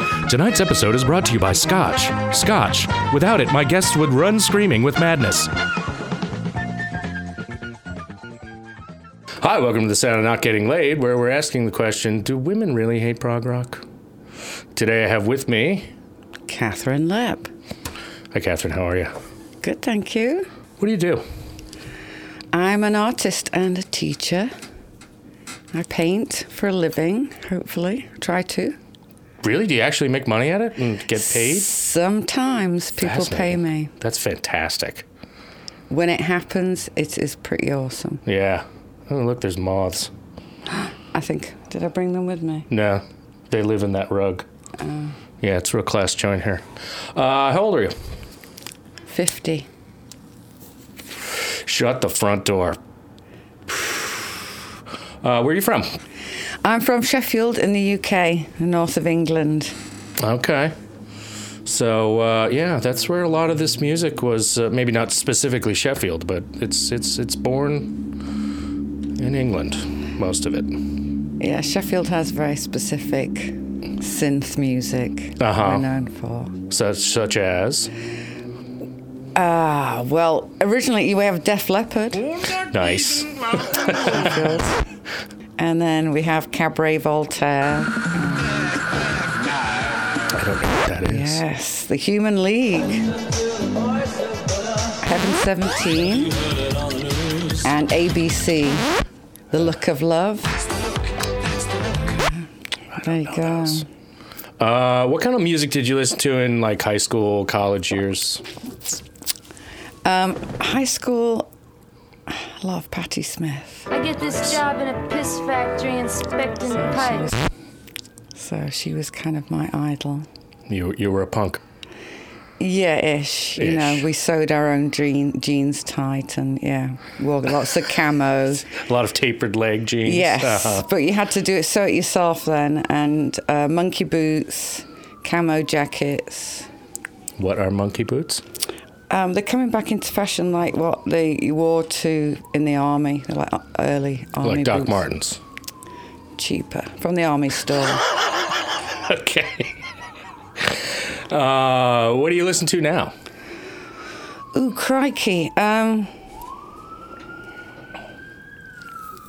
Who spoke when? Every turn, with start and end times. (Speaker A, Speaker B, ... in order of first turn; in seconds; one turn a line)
Speaker A: 0.2-5.5
Speaker A: 9.4-13.8
Speaker A: 14.8-15.9
Speaker B: 16.5-17.5
Speaker A: 18.3-19.1
Speaker B: 19.6-20.5
Speaker A: 20.8-21.2
Speaker B: 22.5-24.5
Speaker B: 25.7-28.8
Speaker A: 29.4-31.7
Speaker B: 31.2-33.9
Speaker A: 33.0-35.1
Speaker B: 35.9-38.2
Speaker A: 38.3-40.1
Speaker B: 40.7-42.7
Speaker A: 42.7-44.5
Speaker B: 44.8-45.1
Speaker A: 45.4-48.0
Speaker B: 49.1-49.7
Speaker A: 51.4-52.8
Speaker A: 53.7-54.5
Speaker A: 55.2-55.9
Speaker B: 56.6-59.7
Speaker A: 60.2-60.8
Speaker A: 61.6-68.0
Speaker A: 69.2-70.8
Speaker B: 71.4-76.5
Speaker A: 75.4-75.9
Speaker A: 76.7-77.9
Speaker B: 79.3-82.4
Speaker A: 82.5-84.5
Speaker B: 83.9-84.8
Speaker B: 85.6-88.7
Speaker A: 90.3-91.4
Speaker B: 91.1-93.1
Speaker B: 95.0-96.3
Speaker B: 97.6-98.9
Speaker B: 99.5-100.6
Speaker B: 103.0-103.9
Speaker A: 103.1-103.8
Speaker A: 104.6-108.5
Speaker B: 110.0-111.5
Speaker B: 112.3-113.9
Speaker C: 113.9-117.3
Speaker B: 116.7-117.5
Speaker B: 118.4-120.3
Speaker A: 120.7-121.6
Speaker B: 122.6-128.8
Speaker A: 123.6-124.1
Speaker A: 128.7-130.9
Speaker B: 130.0-136.7
Speaker A: 137.4-138.4
Speaker B: 139.1-145.1
Speaker A: 144.4-145.4
Speaker B: 146.4-148.1
Speaker A: 148.9-149.8
Speaker A: 150.6-153.1
Speaker B: 154.5-156.1